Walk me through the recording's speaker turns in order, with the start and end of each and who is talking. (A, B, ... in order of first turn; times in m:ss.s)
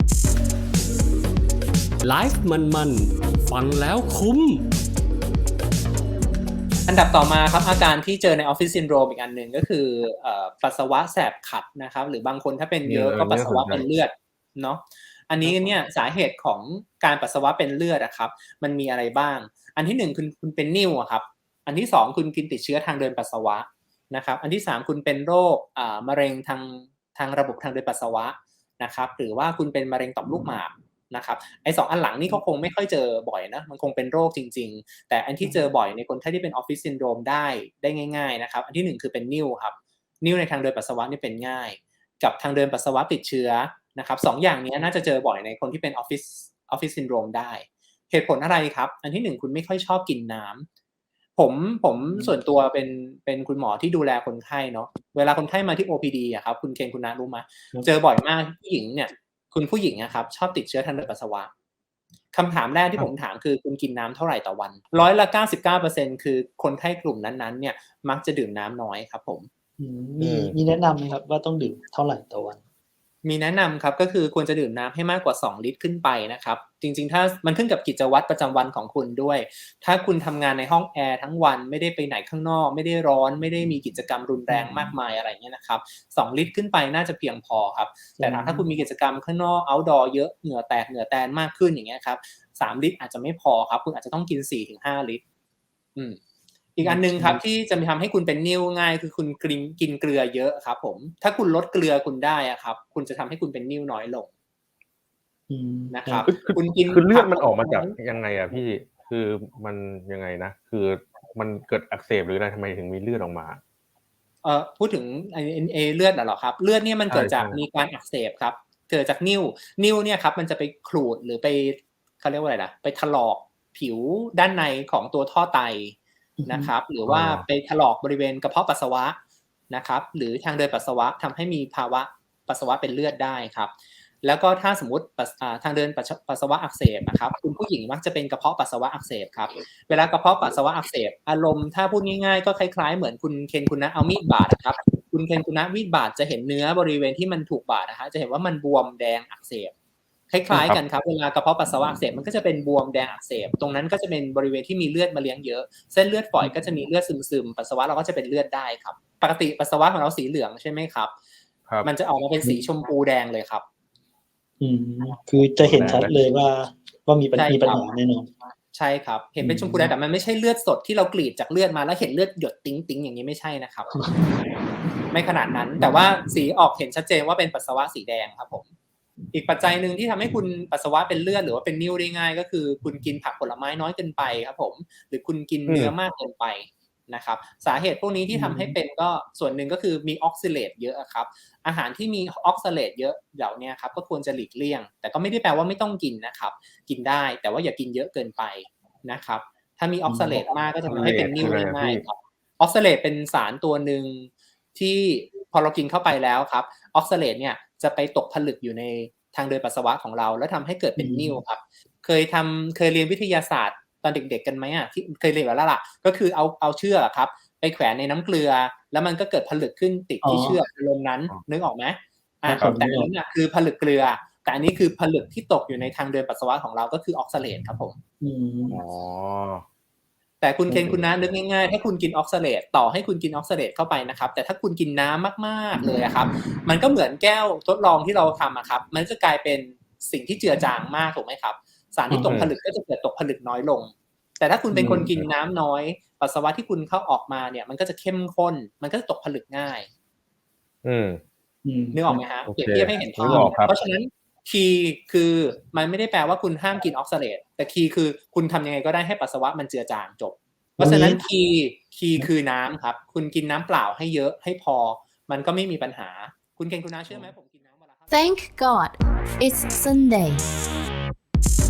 0:02.0-0:04.6 A
0:06.9-0:50.7 B
0:12.8-0:13.9 C
0:15.4-0:15.8 C
0:51.4-1:01.5 B
1:02.3-1:09.5 B
1:09.8-1:12.6 D
1:10.2-1:10.6 C
1:13.2-1:35.2 B
1:24.5-1:24.9 D
1:28.2-1:28.6 D
1:36.8-1:44.3 B
1:36.8-1:37.4 D
1:45.5-1:46.2 D
1:45.9-1:47.9 B
1:46.3-1:53.6 C
1:54.4-2:09.2 B
1:57.1-1:57.6 C
2:06.4-2:06.7 D
2:07.0-2:07.4 C
2:09.7-2:29.7 B
2:30.3-2:41.1 B
2:30.5-2:30.8 C
2:41.8-2:43.6 B
2:44.6-2:48.3 D
2:45.6-2:46.2 C
2:47.3-2:47.9 B
2:48.7-2:53.9 B
2:49.4-2:49.9 D
2:54.0-2:54.4 D
2:55.1-2:58.7 B
2:59.3-3:48.0 B
3:05.7-3:05.9 C
3:08.3-3:08.8 D
3:20.1-3:20.4 D
3:20.9-3:22.0 C
3:31.0-3:31.4 D
3:40.2-3:40.6 D
3:42.4-3:43.1 D
3:42.5-3:42.8 C
3:48.2-3:48.8 D
3:48.7-3:49.6 C
3:50.4-4:09.9 B
3:50.8-3:51.3 C
4:02.1-4:02.4 D
4:02.2-4:02.6 C
4:04.7-4:05.3 C
4:10.8-4:11.2 C
4:11.6-4:12.2 D
4:11.9-4:28.1 B
4:12.4-4:13.8 C
4:13.2-4:13.5 D
4:20.8-4:21.2 D
4:28.1-4:30.4 E